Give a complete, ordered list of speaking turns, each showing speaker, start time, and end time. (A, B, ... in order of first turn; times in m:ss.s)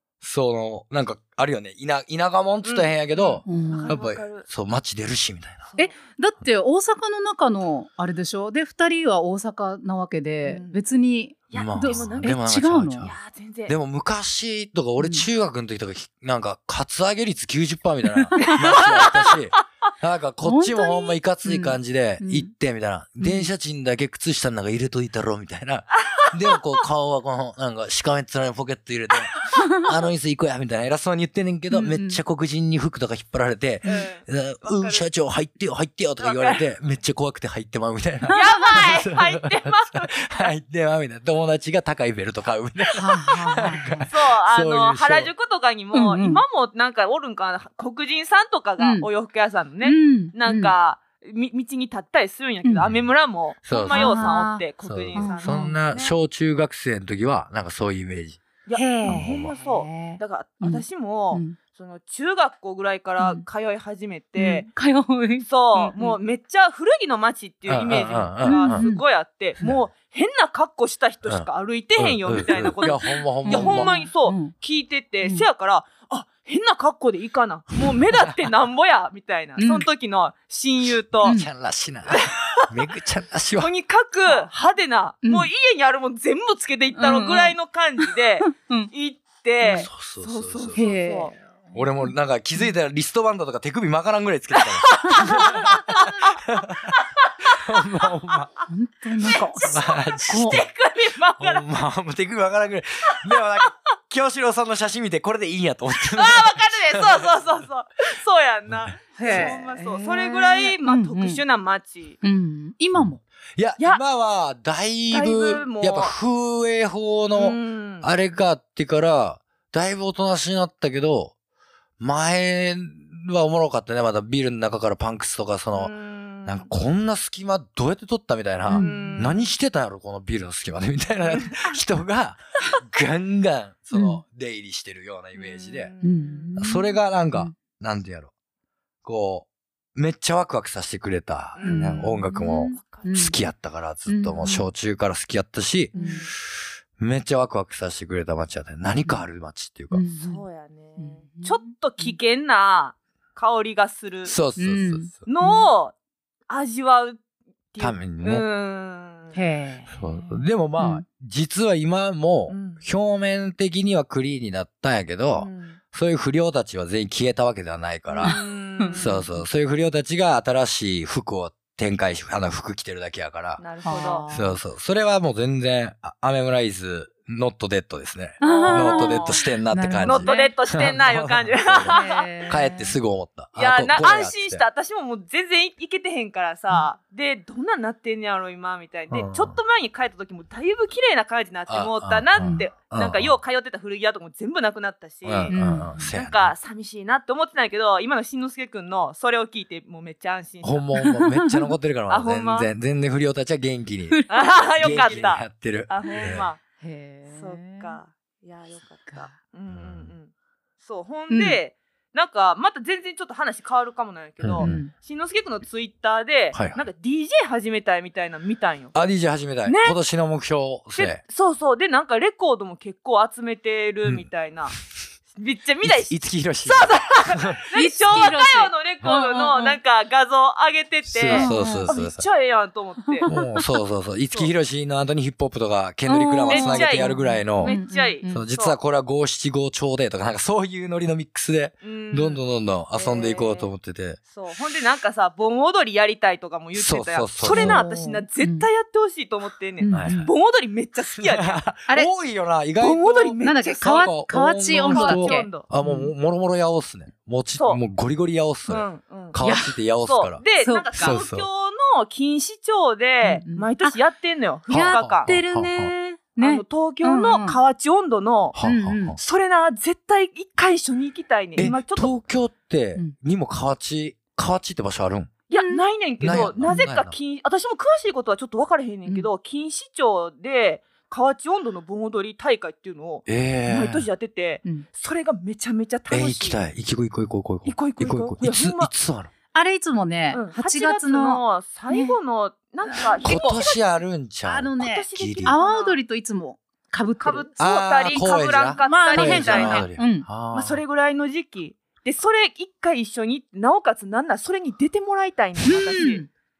0:00.2-0:05.7 A
0:02.6-0:04.4 B
0:03.4-0:04.0 C
0:05.8-0:13.1 C
0:10.4-0:10.8 B
0:11.5-0:12.4 B
0:11.5-0:45.3 A
0:13.0-0:13.7 B
0:15.0-0:15.2 C
0:18.4-0:19.3 B
0:20.4-0:22.5 C
0:23.2-0:23.5 C
0:29.6-0:29.8 C
0:31.7-0:32.2 C
0:33.8-0:34.1 C
0:33.8-0:35.0 B
0:36.2-0:36.6 B
0:38.3-0:40.5 B
0:38.3-0:38.8 C
0:42.9-0:44.1 C
0:44.0-0:56.1 B
0:45.9-0:46.4 C
0:48.8-0:49.1 C
0:49.8-0:50.7 C
0:53.6-0:58.4 A
0:53.7-0:55.7 C
0:58.6-1:04.7 B
0:58.7-1:01.6 C
0:59.0-0:59.5 A
1:03.2-1:03.4 C
1:04.4-1:06.2 C
1:05.4-1:21.4 B
1:07.7-1:08.8 A
1:08.4-1:09.0 C
1:11.2-1:13.9 A
1:13.4-1:14.5 C
1:19.6-1:19.8 C
1:21.2-1:23.7 A
1:21.2-1:21.5 C
1:22.1-1:22.4 B
1:23.6-1:31.4 B
1:25.2-1:25.5 C
1:27.0-1:28.9 C
1:29.6-1:29.9 C
1:29.7-1:30.8 A
1:30.7-1:31.3 C
1:31.7-1:35.8 A
1:34.5-1:37.6 B
1:35.2-1:35.7 C
1:36.5-1:36.9 A
1:37.5-1:38.5 A
1:38.7-1:40.6 C
1:39.3-1:41.6 B
1:39.6-1:40.7 A
1:41.4-1:47.4 A
1:46.1-1:52.2 B
1:48.7-1:49.5 A
1:49.2-1:51.4 C
1:52.2-1:53.2 C
1:52.9-2:01.3 A
1:55.1-1:56.1 B
1:57.3-1:58.1 B
2:02.0-2:05.9 A
2:05.7-2:06.7 B
2:06.4-2:15.9 A
2:08.7-2:09.3 C
2:08.7-2:09.5 B
2:11.3-2:11.7 B
2:13.9-2:14.2 C
2:15.3-2:16.6 B
2:16.0-2:17.5 C
2:16.6-2:18.3 A
2:19.0-2:25.9 A
2:21.6-2:23.1 B
2:21.6-2:23.4 C
2:24.1-2:24.6 C
2:25.9-2:26.3 B
2:25.9-2:26.3 C
2:26.5-2:30.0 A
2:29.9-2:30.4 C
2:30.2-2:34.4 B
2:31.0-2:32.2 C
2:34.2-2:35.3 A
2:34.6-2:35.7 C
2:35.3-2:35.9 B
2:36.5-2:37.2 B
2:37.7-2:39.4 B
2:37.8-2:38.4 A
2:39.3-2:39.9 C
2:39.9-2:48.4 A
2:40.0-2:40.4 B
2:40.8-2:41.0 C
2:42.5-2:42.8 B
2:45.4-2:45.8 B
2:48.2-2:49.4 C
2:48.2-2:49.2 B
2:49.0-3:04.6 A
2:53.6-2:54.2 B
2:53.8-2:54.6 C
2:58.4-2:59.4 B
2:58.4-3:00.5 C
3:00.0-3:02.3 B
3:01.9-3:02.9 C
3:03.6-3:21.0 B
3:09.1-3:09.6 A
3:11.7-3:13.4 A
3:12.4-3:12.7 C
3:15.2-3:16.5 A
3:15.5-3:16.0 C
3:20.6-3:26.4 A
3:21.0-3:21.5 C
3:22.1-3:22.7 B
3:24.1-3:25.2 C
3:24.3-3:26.6 B
3:26.8-3:28.0 C
3:27.3-3:39.0 B
3:29.7-3:30.1 A
3:31.3-3:31.6 C
3:34.4-3:34.9 A
3:34.6-3:34.9 C
3:36.5-3:36.8 A
3:38.9-3:41.2 A
3:39.6-3:40.0 B
3:40.9-3:44.8 B
3:45.3-3:53.3 B
3:45.8-3:47.6 A
3:47.7-3:49.8 C
3:48.1-3:48.4 A
3:51.0-3:52.2 A
3:51.3-3:51.9 C
3:53.1-3:53.6 C
3:53.3-4:04.2 A
3:56.0-3:58.4 C
3:56.5-3:58.8 B
4:01.8-4:02.4 B
4:02.9-4:03.7 B
4:04.2-4:11.6 B
4:06.7-4:07.8 A
4:07.4-4:08.7 C
4:09.8-4:10.3 C
4:09.9-4:10.3 A
4:11.2-4:21.5 A
4:12.8-4:14.2 B
4:13.4-4:16.1 C
4:14.7-4:15.6 B
4:17.6-4:17.8 B
4:18.7-4:25.3 B
4:20.6-4:21.2 C
4:23.2-4:24.0 C
4:24.7-4:27.6 C
4:24.7-4:25.9 A
4:26.4-4:28.6 B
4:28.5-4:29.2 A
4:28.6-4:29.2 C
4:29.2-4:32.1 B
4:31.6-4:35.3 A
4:35.5-4:46.6 B
4:35.6-4:36.9 C
4:36.2-4:37.2 A
4:43.3-4:44.1 A
4:46.1-4:49.3 A
4:47.6-4:48.9 B
4:49.5-4:52.2 C
4:50.3-4:53.8 B
4:52.8-4:53.6 C
4:53.2-4:55.6 A
4:54.4-4:57.5 C
4:54.8-4:56.0 B
4:57.2-4:59.9 B
4:57.6-5:00.8 A
4:58.1-5:00.3 C
5:00.5-5:06.2 B
5:05.6-5:06.3 C